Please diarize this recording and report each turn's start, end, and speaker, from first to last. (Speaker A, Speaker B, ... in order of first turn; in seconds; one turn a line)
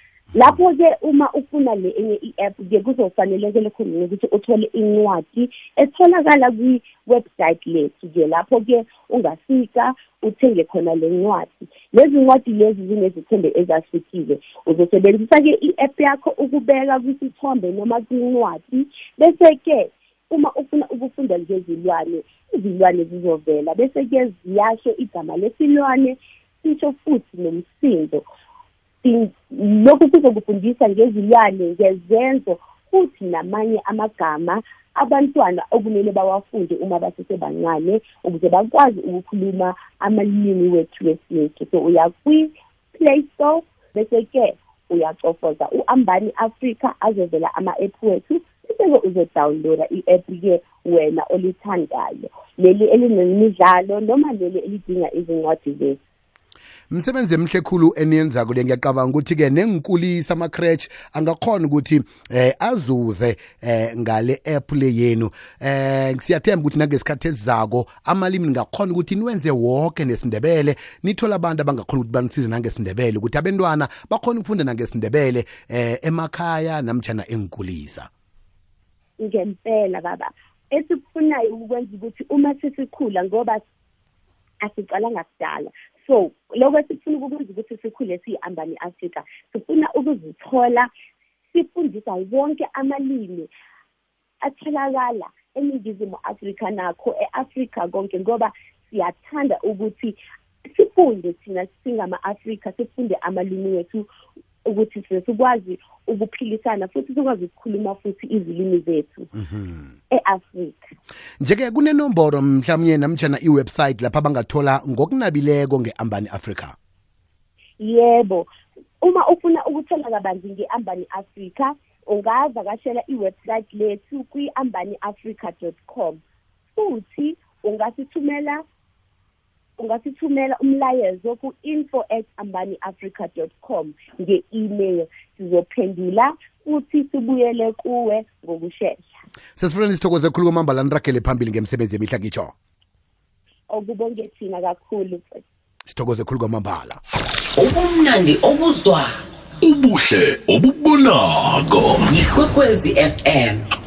Speaker A: 0.3-28.2
Speaker A: 29.0-56.0
Speaker B: 56.9-78.1
Speaker A: 79.2-83.6
Speaker A: 84.6-90.9
Speaker A: 91.5-93.5
Speaker A: 94.4-100.2
Speaker A: 100.7-104.1
Speaker A: 104.7-109.3
Speaker B: 109.4-109.9
Speaker A: 110.1-110.9
Speaker B: 111.4-116.7
Speaker A: 117.8-118.5
Speaker A: 119.0-126.2
Speaker A: 126.7-128.6
Speaker A: 129.8-139.2
Speaker B: 139.6-142.5
Speaker A: 143.7-145.4
Speaker B: 145.9-147.0
Speaker C: 147.6-149.1
Speaker D: 149.6-152.1
Speaker C: 152.1-153.6